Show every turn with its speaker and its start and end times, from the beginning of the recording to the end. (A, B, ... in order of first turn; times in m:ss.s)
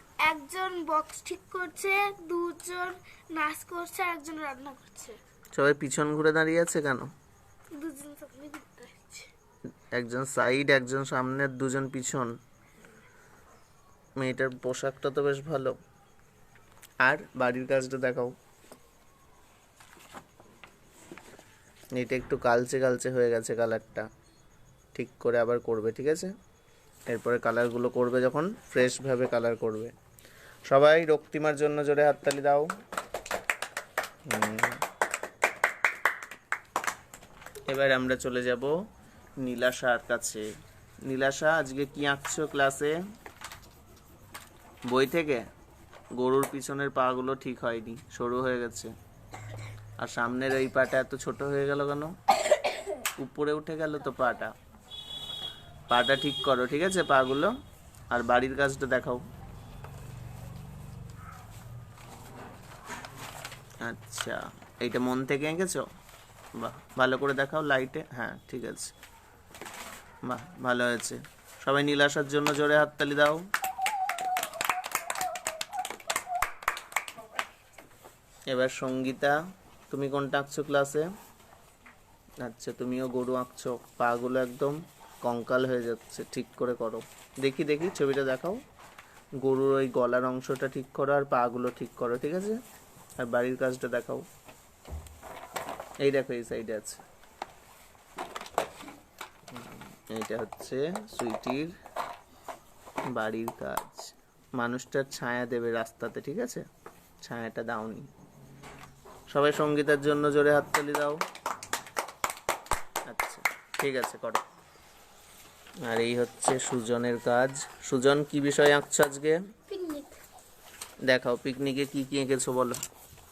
0:00.2-0:05.2 A
0:05.6-0:07.1 B
0:07.7-0:09.3 A
0:09.9-0:12.4 B
0:14.2-0:15.8 B
0:17.0-0:18.4 B
0:22.0-0:24.1 B
0:24.9-0:26.3 B
0:27.1-0:29.9 B
0:30.7-0:32.7 B
0:34.3-0:34.8 B
0:37.7-0:38.7 B
0:39.4-0:40.5 B
0:41.0-0:43.0 B
0:44.9-0:45.5 B
0:46.2-0:48.9 B
0:50.0-0:52.2 B
0:53.2-0:54.6 B
0:55.9-0:57.6 B
0:58.1-0:59.2 B
1:03.8-1:05.9 B
1:06.6-1:08.9 B
1:10.2-1:13.4 B
1:18.5-1:19.4 B
1:19.9-1:21.1 B
1:22.4-1:28.6 B
1:29.4-1:32.6 B
1:33.2-1:34.2 B
1:36.0-1:37.0 B
1:39.5-1:41.7 B
1:43.1-1:46.7 B
1:47.2-1:48.1 B
1:49.3-1:51.2 B
1:53.1-1:54.4 B
1:55.8-1:59.4 B
1:59.7-2:00.2 A
2:01.1-2:02.8 B